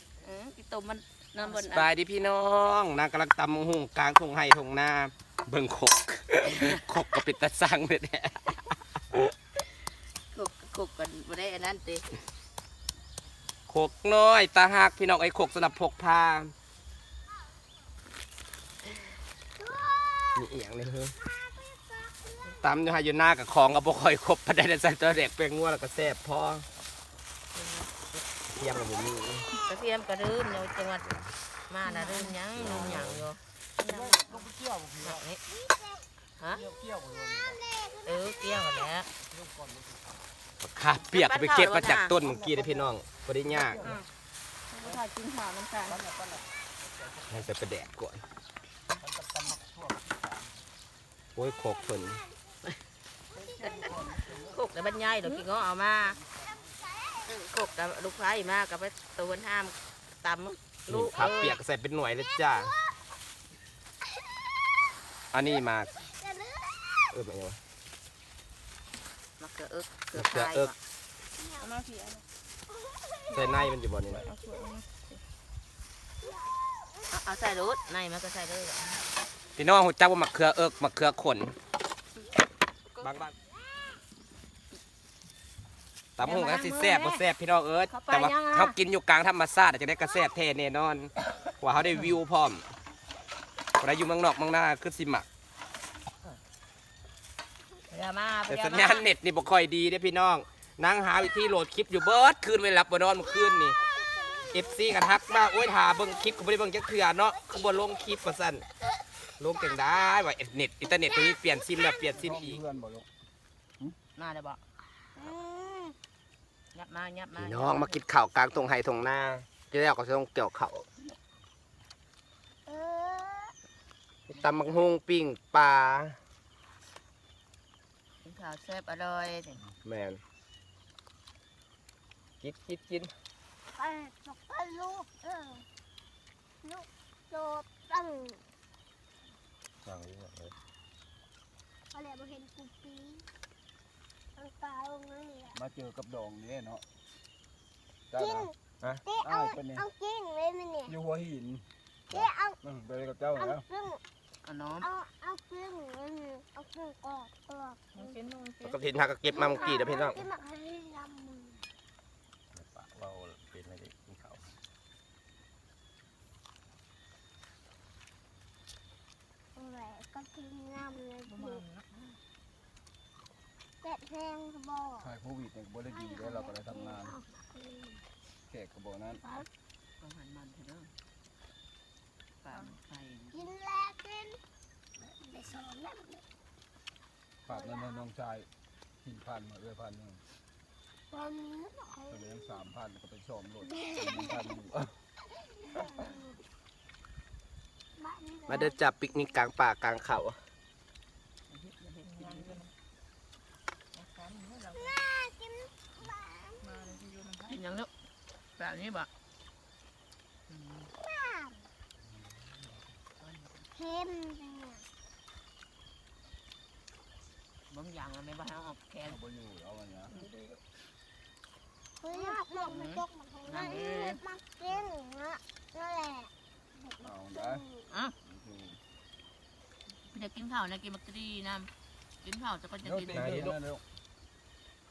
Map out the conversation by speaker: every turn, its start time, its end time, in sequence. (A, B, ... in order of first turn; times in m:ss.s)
0:00.2-0:01.9 A
0:01.5-0:08.7 B
0:06.4-0:07.2 A
0:10.3-0:12.1 A
0:13.7-0:16.5 B
0:19.6-0:20.4 C
0:20.4-0:21.1 B
0:21.4-0:22.4 C
0:22.6-0:26.6 B
0:27.6-0:28.0 A
0:28.5-0:29.5 B
0:29.6-0:31.0 A
0:30.9-0:31.3 B
0:31.7-0:35.4 A
0:32.6-0:33.2 B
0:34.2-0:34.9 D
0:35.6-0:36.0 C
0:36.4-0:36.6 A
0:36.8-0:37.4 D
0:37.6-0:38.2 C
0:38.0-0:39.1 A
0:40.6-0:43.8 B
0:41.0-0:42.2 A
0:43.7-0:44.0 D
0:44.7-0:46.0 A
0:47.3-0:48.2 B
0:49.1-0:50.3 D
0:51.4-0:52.2 B
0:53.4-0:54.4 D
0:53.6-0:56.2 A
0:57.2-1:01.6 A
1:00.9-1:02.7 B
1:05.3-1:05.9 B
1:06.2-1:06.9 C
1:07.1-1:07.6 B
1:09.4-1:10.8 A
1:10.2-1:10.7 B
1:11.6-1:12.2 E
1:13.3-1:14.2 B
1:13.3-1:15.2 E
1:17.1-1:19.0 A
1:19.6-1:21.5 B
1:23.0-1:23.3 B
1:26.2-1:32.6 B
1:26.2-1:27.2 A
1:27.9-1:28.8 A
1:33.8-1:35.2 B
1:37.9-1:39.1 A
1:38.5-1:43.8 B
1:43.8-1:45.1 C
1:44.5-1:48.6 B
1:49.4-1:52.6 B
1:52.2-1:53.1 D
1:54.2-1:54.6 A
1:55.2-1:56.0 C
1:56.7-1:58.1 A
1:57.4-2:00.9 B
2:02.7-2:03.5 C
2:04.3-2:04.9 A
2:04.3-2:06.2 B
2:08.2-2:09.6 A
2:09.8-2:10.2 B
2:12.4-2:13.1 B
2:13.8-2:15.6 C
2:16.6-2:18.4 C
2:19.9-2:20.5 B
2:21.9-2:23.2 C
2:24.4-2:25.6 C
2:25.6-2:26.8 D
2:28.1-2:28.5 D
2:28.1-2:28.5 C
2:29.1-2:31.0 C
2:29.2-2:29.8 D
2:30.9-2:31.6 D
2:32.1-2:32.6 C
2:32.6-2:33.6 D
2:33.4-2:34.0 C
2:34.4-2:34.9 A
2:34.8-2:38.0 C
2:38.0-2:38.8 E
2:38.6-2:40.2 B
2:39.3-2:41.7 C
2:42.7-2:44.4 B
2:49.6-2:51.6 C
2:51.3-2:51.9 E
2:53.8-2:55.1 C
2:55.0-2:57.1 D
2:56.0-2:58.0 C
2:58.5-2:59.3 D
3:00.0-3:00.9 A
3:02.4-3:03.5 A
3:03.3-3:04.4 C
3:05.1-3:06.2 C
3:07.5-3:08.5 D
3:07.5-3:08.0 C
3:09.0-3:10.2 D
3:11.1-3:12.6 C
3:12.1-3:14.9 D
3:13.7-3:14.5 C
3:15.5-3:16.2 C
3:18.0-3:18.7 C
3:18.5-3:20.4 B
3:21.5-3:22.6 A
3:22.0-3:22.7 E
3:23.9-3:25.0 E
3:24.9-3:26.8 C
3:26.6-3:27.6 E
3:27.5-3:27.9 A
3:28.6-3:29.1 A
3:30.5-3:30.9 A
3:31.1-3:31.6 C
3:33.2-3:33.7 A
3:33.8-3:34.8 C
3:37.7-3:39.2 A
3:39.1-3:40.1 D
3:40.1-3:40.6 E
3:42.0-3:47.9 C
3:42.7-3:44.2 A
3:47.0-3:47.6 D
3:48.2-3:48.8 D
3:50.1-3:51.7 A
3:52.2-3:53.4 A
3:52.8-3:53.8 D
3:53.1-3:53.6 B